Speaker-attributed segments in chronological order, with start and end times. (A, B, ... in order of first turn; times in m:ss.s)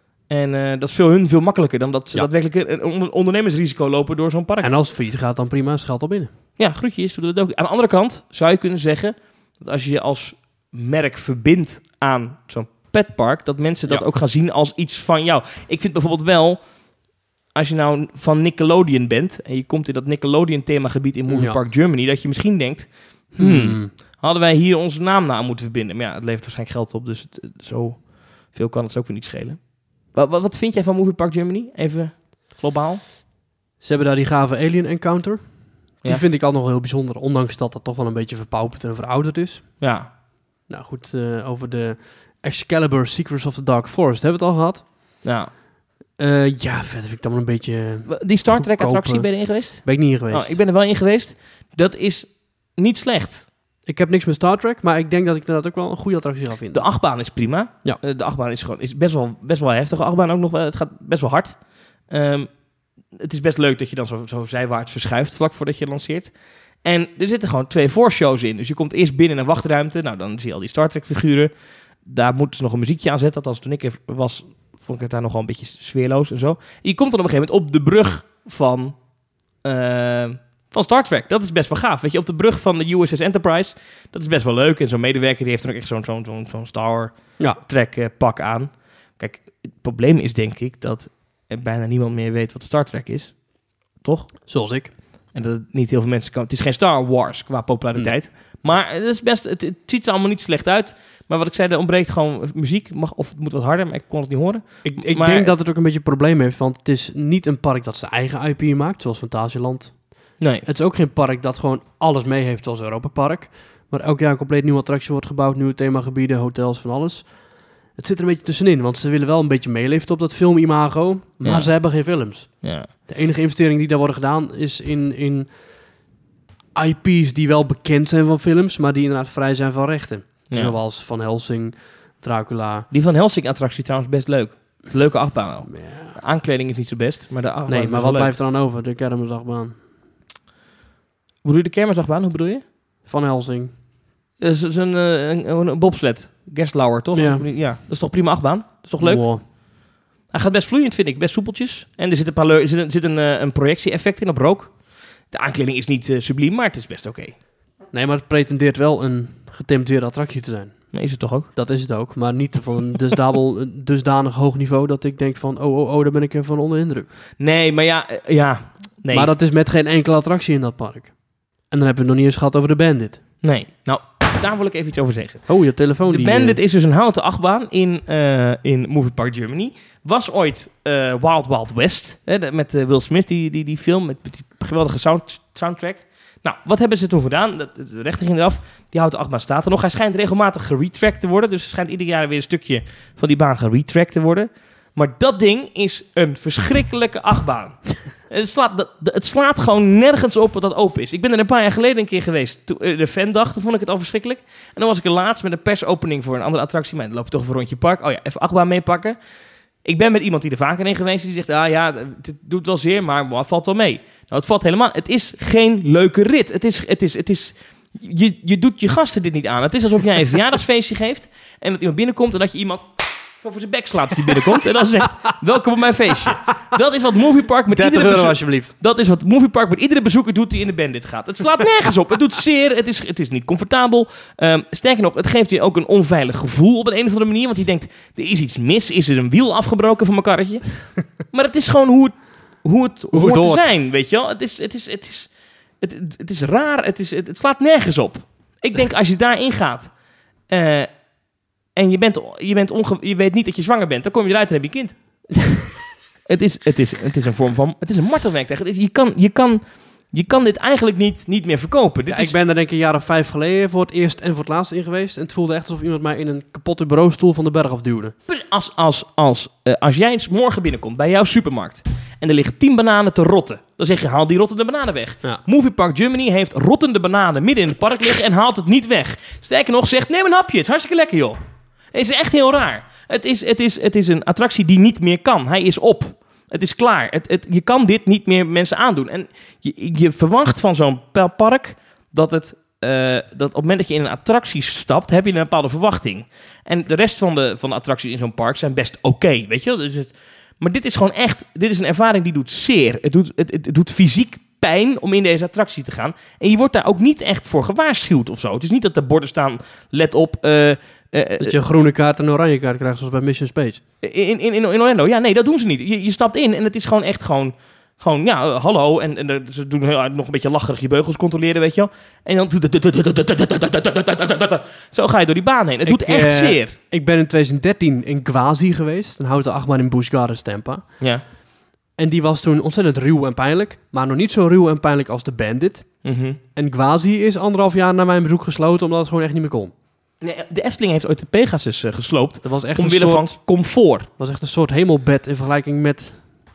0:00.3-0:04.7 A
0:04.6-0:06.3 B
0:06.6-0:16.6 A
0:17.5-0:33.0 A
0:21.3-0:21.6 B
0:23.4-0:23.9 B
0:33.8-0:39.8 B
0:39.8-0:40.1 A
0:40.7-0:45.2 B
0:45.2-0:45.5 A
0:46.2-0:50.6 B
0:48.1-0:53.5 A
0:53.9-0:56.9 B
0:56.7-1:01.6 A
1:02.1-1:02.5 A
1:03.1-1:06.3 A
1:06.8-1:11.5 A
1:12.0-1:19.0 A
1:19.6-1:33.4 A
1:34.0-1:34.3 A
1:34.5-1:34.9 B
1:35.3-1:45.5 A
1:44.8-2:05.6 B
1:50.4-1:50.7 A
2:01.4-2:01.7 A
2:02.6-2:02.9 A
2:06.8-2:12.9 B
2:10.5-2:10.8 A
2:12.9-2:18.3 A
2:15.7-2:16.2 B
2:17.7-2:19.8 B
2:21.4-2:22.6 A
2:23.0-2:23.7 B
2:24.4-2:29.5 A
2:27.1-2:27.5 B
2:29.0-2:29.4 B
2:30.3-2:34.8 A
2:35.3-2:37.4 A
2:37.9-2:40.9 B
2:40.9-2:41.5 A
2:41.5-2:47.1 B
2:47.4-2:49.3 A
2:49.1-2:51.1 B
2:51.7-2:53.2 B
2:53.4-2:55.5 A
2:55.5-2:56.6 B
2:56.1-3:29.2 A
3:29.8-3:42.8 A
3:43.4-4:09.9 A
3:47.7-3:48.7 B
4:03.1-4:03.7 B
4:10.5-4:10.9 A
4:11.8-4:15.0 A
4:16.3-4:22.4 A
4:22.1-4:28.1 B
4:28.3-4:41.4 A
4:41.9-5:11.6 A
5:11.4-5:13.8 B
5:14.0-5:26.7 A
5:25.8-5:30.9 B
5:32.0-5:35.9 B
5:36.0-5:36.4 A
5:36.6-5:39.7 B
5:40.2-5:44.1 A
5:42.4-5:43.4 B
5:44.2-5:46.3 B